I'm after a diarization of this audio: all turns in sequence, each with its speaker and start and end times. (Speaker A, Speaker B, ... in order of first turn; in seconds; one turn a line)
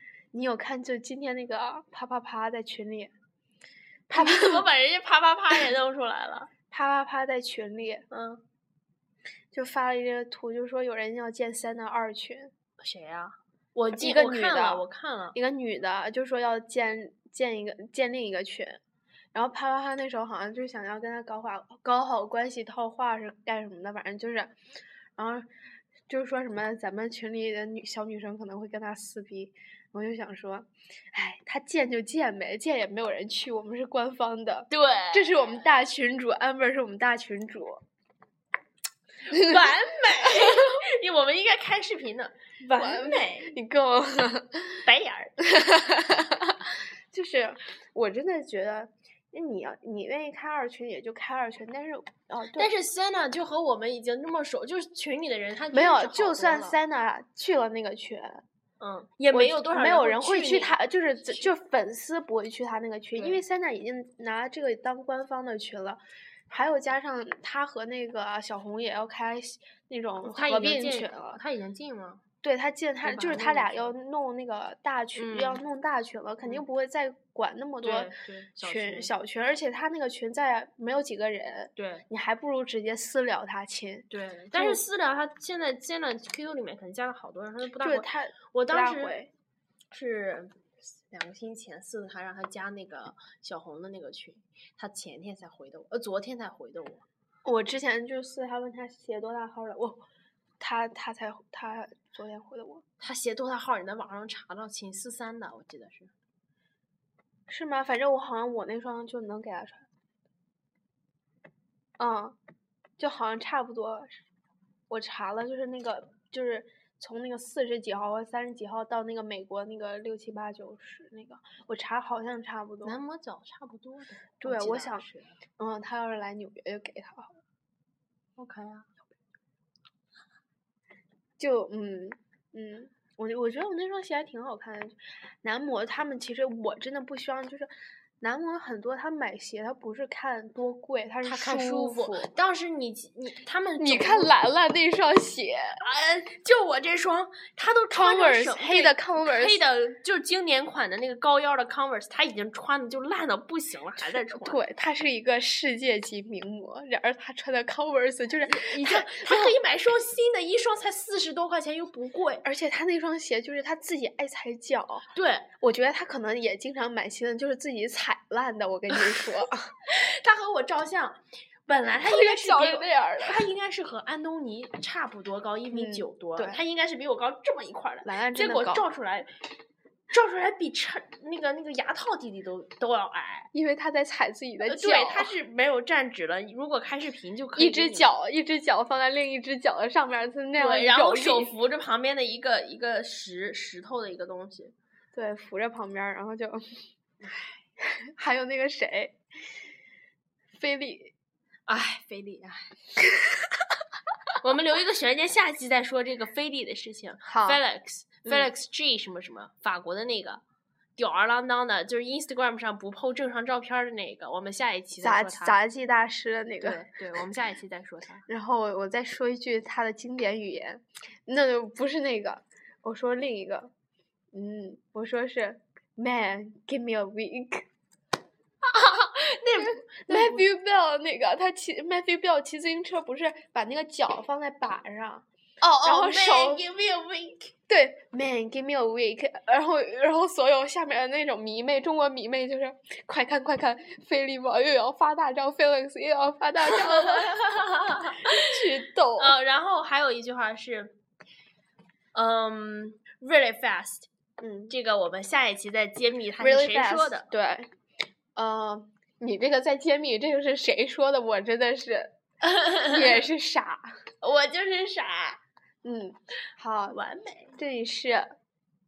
Speaker A: 0.3-3.1
Speaker A: 4.1-4.6
Speaker B: 4.1-6.5
Speaker A: 6.7-8.1
Speaker B: 8.1-8.4
Speaker A: 9.5-12.5
Speaker B: 12.8-15.4
Speaker A: 13.9-18.8
Speaker A: 19.3-24.5
Speaker A: 25.2-25.5
Speaker A: 26.1-37.8
Speaker B: 34.7-35.5
Speaker B: 39.2-43.5
Speaker A: 39.3-39.6
Speaker A: 40.2-40.8
Speaker A: 42.8-44.8
Speaker B: 44.8-45.4
Speaker A: 45.4-52.7
Speaker B: 52.6-56.8
Speaker A: 55.7-58.4
Speaker B: 58.8-61.5
Speaker A: 59.3-71.4
Speaker B: 63.2-63.4
Speaker B: 70.2-72.2
Speaker A: 72.4-84.8
Speaker B: 73.0-73.9
Speaker B: 75.1-75.6
Speaker B: 77.8-79.1
Speaker B: 81.8-82.0
Speaker B: 84.1-89.3
Speaker A: 87.8-89.3
Speaker B: 89.9-97.0
Speaker A: 97.4-100.0
Speaker A: 100.6-102.8
Speaker B: 103.0-106.1
Speaker A: 107.5-109.9
Speaker A: 112.0-112.4
Speaker A: 113.0-114.2
Speaker A: 114.9-123.0
Speaker B: 122.8-125.4
Speaker A: 124.4-125.0
Speaker A: 125.6-127.3
Speaker B: 128.4-128.9
Speaker A: 131.4-142.3
Speaker B: 141.2-144.3
Speaker A: 143.8-145.8
Speaker B: 145.8-154.6
Speaker A: 147.9-149.6
Speaker A: 154.0-159.6
Speaker B: 158.5-162.4
Speaker A: 162.4-165.0
Speaker B: 165.1-165.5
Speaker A: 165.6-169.7
Speaker B: 169.9-179.3
Speaker A: 171.9-173.4
Speaker A: 175.7-176.6
Speaker A: 178.0-178.9
Speaker B: 180.1-183.5
Speaker A: 183.5-185.3
Speaker B: 184.6-188.1
Speaker A: 187.6-191.5
Speaker B: 190.6-194.7
Speaker A: 195.1-196.8
Speaker B: 197.2-197.6
Speaker A: 197.8-199.2
Speaker A: 200.5-201.1
Speaker B: 201.7-202.7
Speaker B: 204.4-210.4
Speaker A: 207.2-207.6
Speaker B: 211.0-215.6
Speaker A: 215.0-216.8
Speaker B: 216.6-218.2
Speaker A: 218.3-223.7
Speaker A: 224.3-227.7
Speaker B: 228.6-230.4
Speaker A: 229.6-236.6
Speaker B: 235.8-237.5
Speaker A: 237.7-247.4
Speaker B: 246.6-248.5
Speaker A: 248.2-249.3
Speaker B: 249.2-251.0
Speaker B: 252.1-254.1
Speaker A: 254.4-254.7
Speaker B: 254.7-257.3
Speaker A: 256.4-257.7
Speaker A: 258.4-262.1
Speaker B: 262.4-263.2
Speaker A: 262.8-263.9
Speaker B: 264.2-265.4
Speaker A: 265.8-267.0
Speaker B: 266.9-267.6
Speaker A: 267.6-268.4